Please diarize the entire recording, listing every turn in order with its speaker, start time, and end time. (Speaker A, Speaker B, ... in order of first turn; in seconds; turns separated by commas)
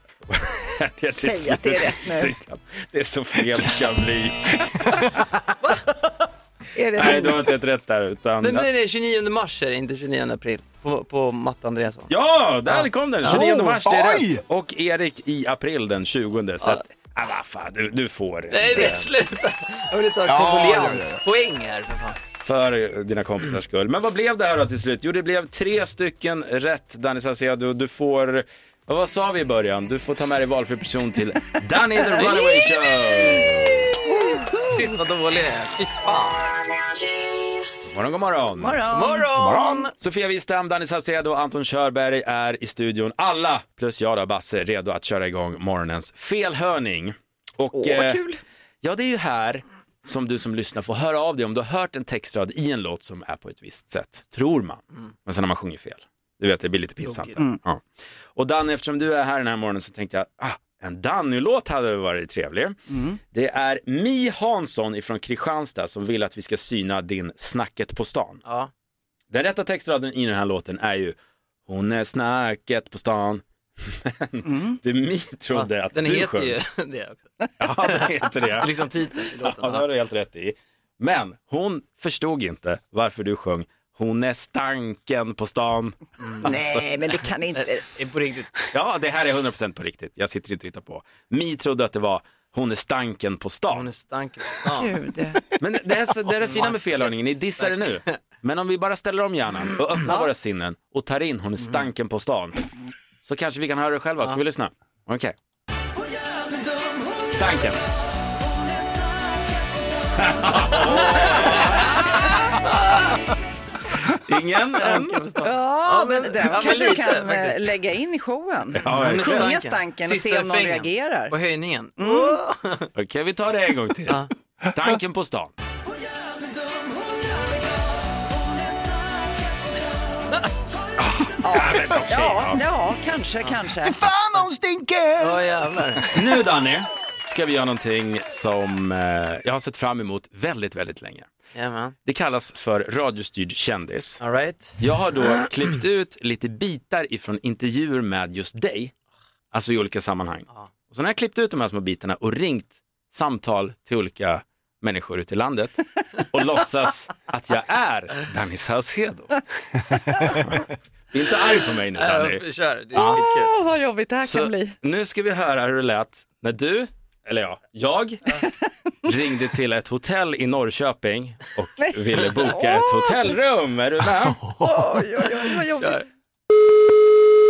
Speaker A: 0.3-4.6, Speaker B: 1.1-2.3, Speaker B: 6.7-7.5, Speaker A: 7.0-8.7, Speaker C: 8.4-12.1, Speaker A: 12.1-19.1, Speaker C: 12.7-13.7, Speaker D: 13.8-14.4, Speaker C: 18.5-22.2, Speaker D: 20.2-21.2, Speaker A: 22.4-33.8, Speaker B: 32.1-32.5, Speaker B: 34.1-34.9, Speaker C: 34.7-36.4, Speaker A: 37.9-38.8, Speaker B: 38.6-39.9, Speaker C: 38.9-39.9, Speaker A: 40.0-48.2, Speaker B: 47.7-48.4, Speaker A: 48.8-57.8, Speaker C: 57.0-57.4, Speaker A: 58.3-62.8, Speaker B: 62.9-63.2, Speaker A: 63.3-68.4, Speaker C: 68.4-68.7, Speaker A: 69.3-71.2, Speaker A: 71.7-76.5, Speaker B: 74.4-74.8, Speaker C: 75.5-79.9, Speaker A: 77.6-78.7, Speaker A: 79.4-86.9, Speaker C: 86.2-86.5, Speaker B: 86.4-87.8, Speaker C: 87.5-88.5, Speaker A: 88.7-93.9, Speaker C: 93.7-95.0, Speaker B: 94.7-95.4, Speaker A: 95.6-102.6, Speaker C: 96.4-98.2, Speaker A: 103.2-105.3, Speaker A: 107.3-107.8, Speaker A: 110.2-112.2, Speaker C: 110.9-111.8, Speaker A: 114.0-115.2, Speaker C: 114.6-117.8, Speaker B: 115.4-121.3, Speaker A: 118.8-119.5, Speaker C: 118.8-122.9, Speaker B: 122.0-122.4, Speaker A: 122.9-125.5, Speaker A: 131.0-132.6, Speaker B: 131.4-134.0, Speaker D: 133.8-135.5, Speaker C: 135.2-136.1, Speaker A: 136.1-141.3, Speaker C: 141.5-141.9, Speaker A: 142.0-144.2, Speaker C: 144.2-144.8, Speaker A: 144.8-148.9, Speaker A: 149.5-159.3, Speaker A: 161.1-163.2, Speaker C: 162.0-163.5, Speaker B: 162.9-164.7, Speaker A: 164.2-168.2, Speaker A: 169.1-174.4, Speaker B: 171.8-173.3, Speaker B: 174.6-176.0, Speaker C: 175.8-176.0